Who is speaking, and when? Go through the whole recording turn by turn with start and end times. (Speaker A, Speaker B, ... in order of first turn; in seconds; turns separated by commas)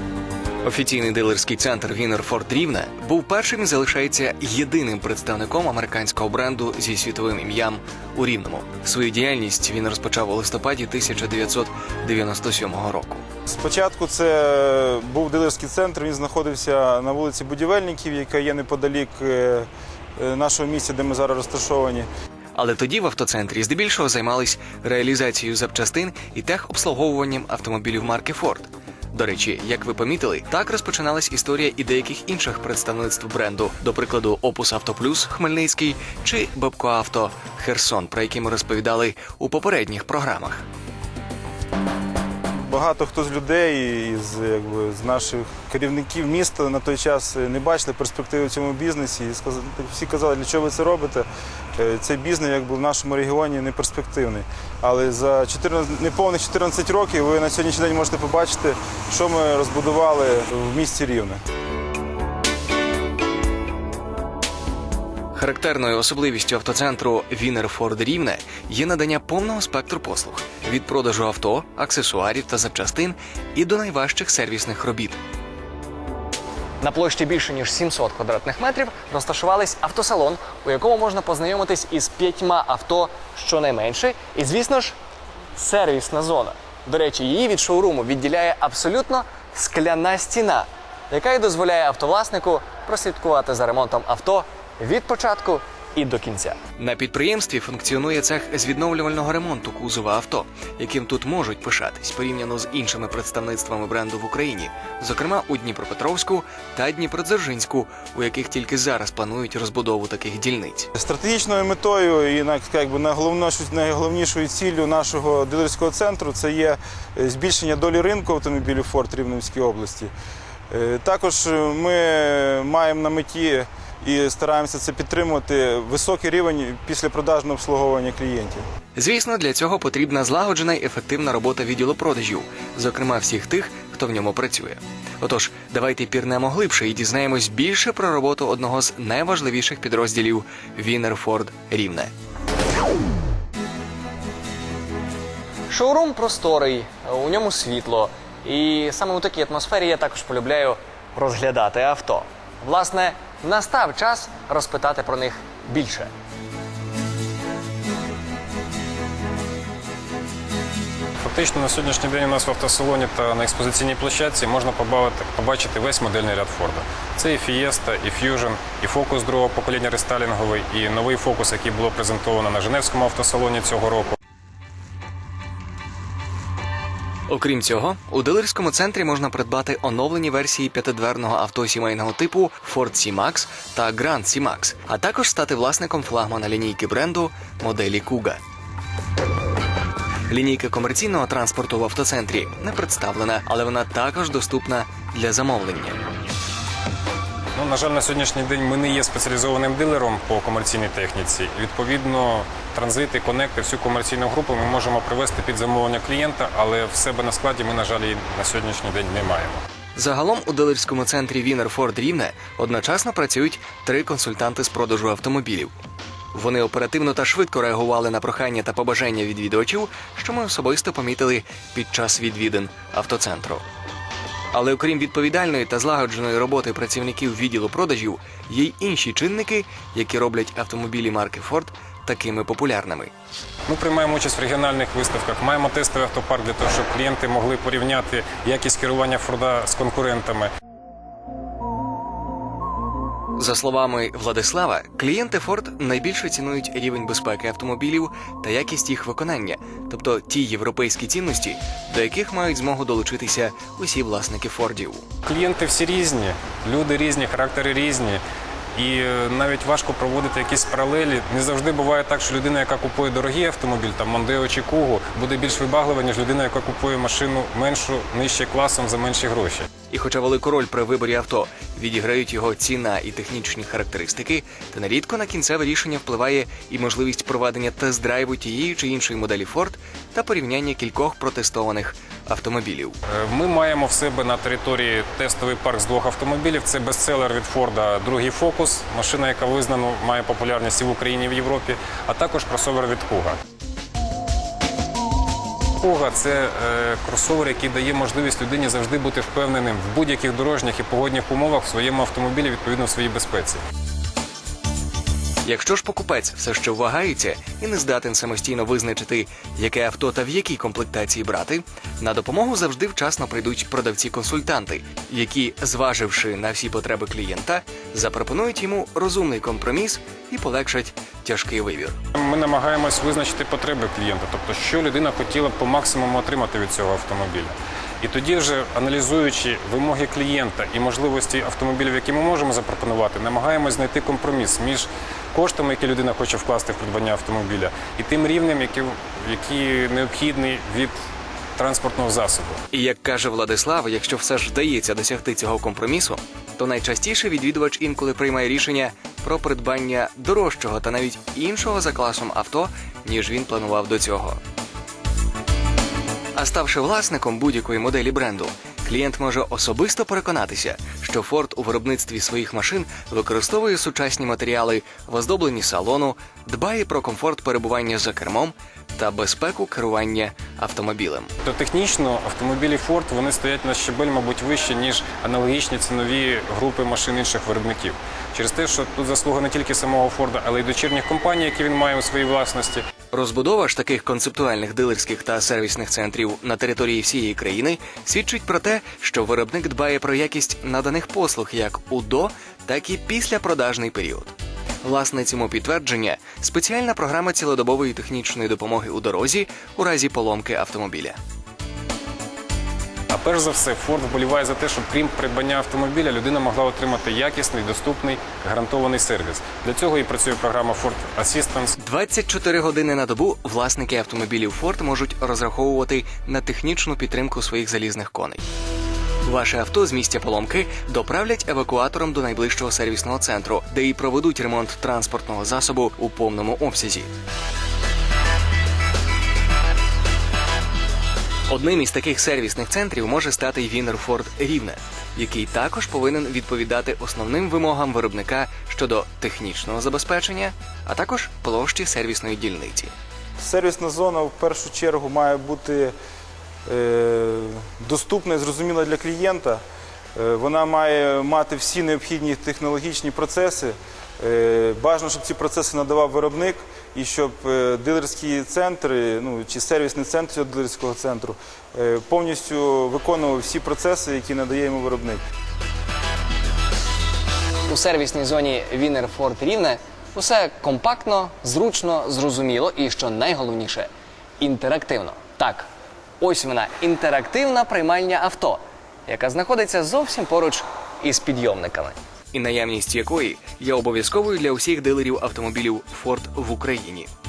Speaker A: 0.6-13.2, Speaker B: 13.5-22.1, Speaker A: 22.6-40.6, Speaker B: 42.7-51.3, Speaker B: 51.8-61.4, Speaker A: 65.3-75.2, Speaker A: 76.8-84.9, Speaker C: 76.9-77.6, Speaker C: 81.9-83.3, Speaker A: 85.6-86.2, Speaker C: 85.7-87.2, Speaker A: 86.8-95.3, Speaker C: 88.8-90.7, Speaker C: 91.2-96.6, Speaker A: 96.8-110.9, Speaker B: 111.0-120.1, Speaker B: 120.7-128.6, Speaker A: 129.0-142.1, Speaker C: 145.7-156.1, Speaker A: 148.8-149.5, Speaker A: 153.4-155.1, Speaker D: 161.2-174.2, Speaker A: 177.3-188.4, Speaker A: 190.3-196.0, Speaker D: 197.6-209.6, Speaker A: 210.0-215.7, Speaker A: 216.3-223.7, Speaker A: 224.5-233.1, Speaker D: 233.7-240.5, Speaker A: 243.4-255.1, Speaker D: 255.2-258.2, Speaker D: 258.8-269.7, Speaker A: 269.9-282.9, Speaker D: 283.1-293.4, Speaker D: 295.8-303.6, Speaker A: 305.4-321.9, Speaker D: 322.1-340.9, Speaker D: 341.6-342.6, Speaker A: 342.7-354.4, Speaker A: 356.4-371.3, Speaker D: 371.4-382.9, Speaker A: 383.1-401.2, Speaker D: 403.1-411.8, Speaker A: 411.8-418.4, Speaker A: 419.2-427.1, Speaker A: 431.5-442.9, Speaker B: 443.4-445.9, Speaker B: 446.7-449.6, Speaker B: 450.2-465.2, Speaker A: 467.7-469.5, Speaker C: 467.7-473.9, Speaker A: 470.1-473.8, Speaker C: 474.4-475.6, Speaker A: 474.4-475.6, Speaker A: 476.2-487.1, Speaker C: 476.2-477.8, Speaker C: 481.0-481.9